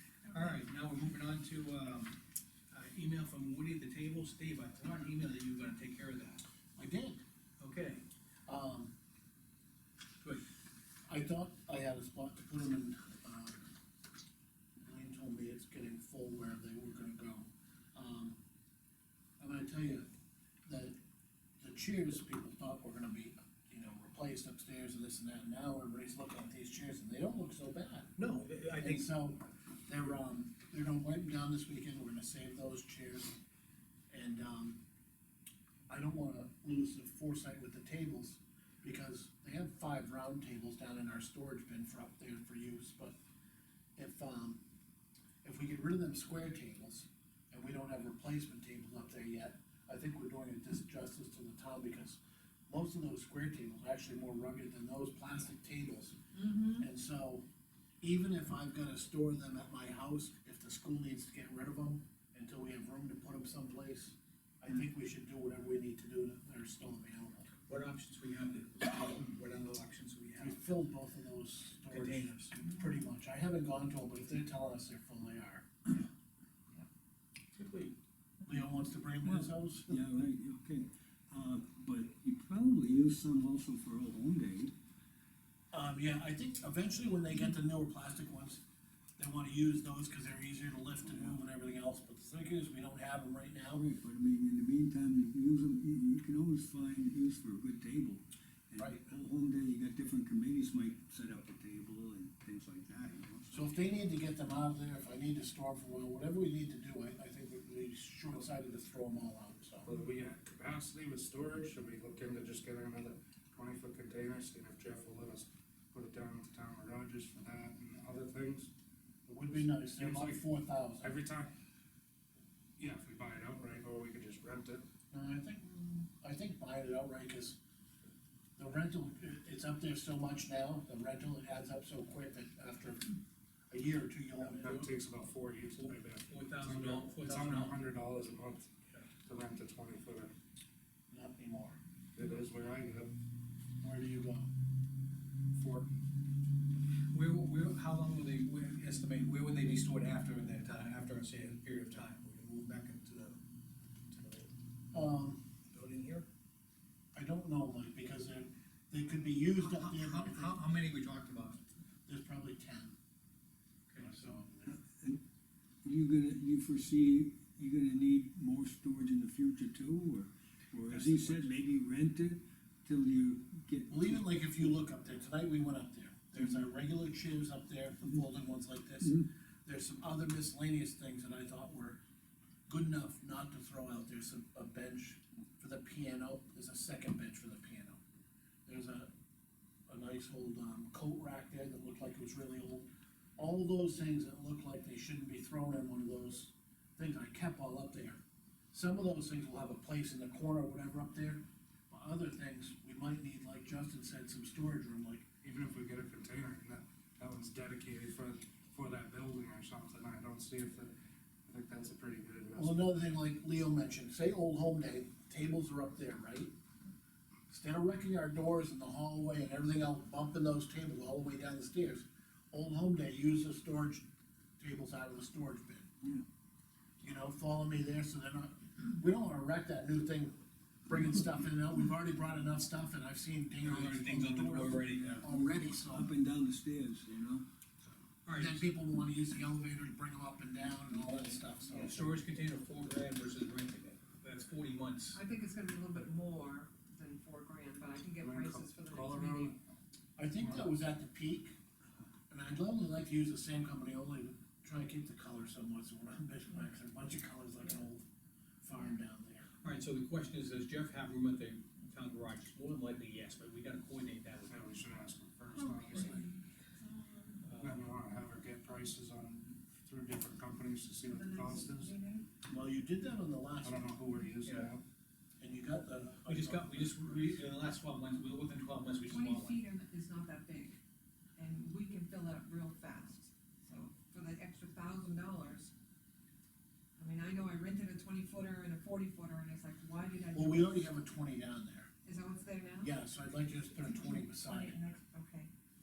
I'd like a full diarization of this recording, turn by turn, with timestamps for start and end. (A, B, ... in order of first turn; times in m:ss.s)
0:00.2-0:02.2 A
0:02.7-0:06.4 A
0:06.8-0:07.2 B
0:07.6-0:08.0 A
0:08.4-0:08.9 B
0:11.1-0:13.6 B
0:14.8-0:18.4 B
0:19.4-0:20.0 B
0:20.6-0:21.0 B
0:21.6-0:28.1 B
0:28.1-0:29.1 A
0:28.8-0:33.4 B
0:34.1-0:34.8 B
0:35.9-0:43.2 B
0:44.0-0:44.6 B
0:45.4-0:56.2 B
0:56.3-0:56.8 C
0:56.7-0:57.4 B
0:58.0-1:07.5 B
1:07.5-1:10.6 A
1:10.4-1:16.0 B
1:11.8-1:12.6 A
1:17.6-1:17.9 A
1:18.4-1:20.0 B
1:19.2-1:24.7 D
1:25.7-1:28.6 B
1:29.2-1:33.8 B
1:31.0-1:31.4 D
1:33.7-1:43.6 D
1:43.5-1:49.9 B
1:49.8-1:58.7 E
1:59.3-2:01.2 B
1:59.9-2:00.4 E
2:01.0-2:01.5 E
2:02.8-2:04.8 E
2:05.1-2:07.6 B
2:08.6-2:13.2 B
2:13.7-2:14.7 B
2:14.4-2:14.9 A
2:14.6-2:18.7 E
2:15.7-2:17.9 A
2:19.2-2:20.3 E
2:21.1-2:21.8 B
2:22.2-2:23.1 E
2:23.8-2:24.5 B
2:25.5-2:25.9 E
2:27.1-2:33.4 A
2:34.1-2:34.5 A
2:34.9-2:35.4 B
2:35.7-2:36.2 A
2:37.1-2:40.6 B
2:39.6-2:41.6 A
2:42.1-2:42.9 B
2:43.9-2:44.3 A
2:44.0-2:44.8 B
2:44.8-2:45.2 D
2:45.8-2:54.4 D
2:50.9-2:51.5 A
2:53.9-3:02.0 B
3:02.7-3:08.0 B
3:08.6-3:09.1 B
3:09.9-3:18.2 B
3:18.7-3:25.2 B
3:25.4-3:30.9 E
3:31.4-3:33.0 E
3:32.5-3:36.5 B
3:37.5-3:44.0 B
3:44.6-3:45.9 B
3:47.0-3:50.3 B
3:50.9-3:56.1 B
3:53.6-3:55.3 A
3:54.8-3:57.4 D
3:58.2-3:58.7 A
3:58.3-4:02.2 B
4:00.9-4:01.2 D
4:01.7-4:05.2 A
4:05.1-4:09.6 C
4:08.1-4:09.6 E
4:10.2-4:11.5 B
4:10.4-4:10.7 E
4:12.3-4:18.0 B
4:18.6-4:19.4 B
4:19.6-4:24.6 A
4:24.5-4:26.3 E
4:25.5-4:27.4 C
4:27.4-4:27.8 A
4:27.5-4:31.9 E
4:31.1-4:32.3 C
4:32.5-4:34.0 B
4:33.6-4:34.8 E
4:34.4-4:34.7 A
4:35.4-4:37.4 B
4:36.2-4:39.6 A
4:39.1-4:40.8 C
4:41.4-4:45.7 C
4:47.0-4:51.0 C
4:50.3-4:51.9 B
4:52.0-4:53.0 C
4:52.8-4:54.8 B
4:53.8-4:55.5 C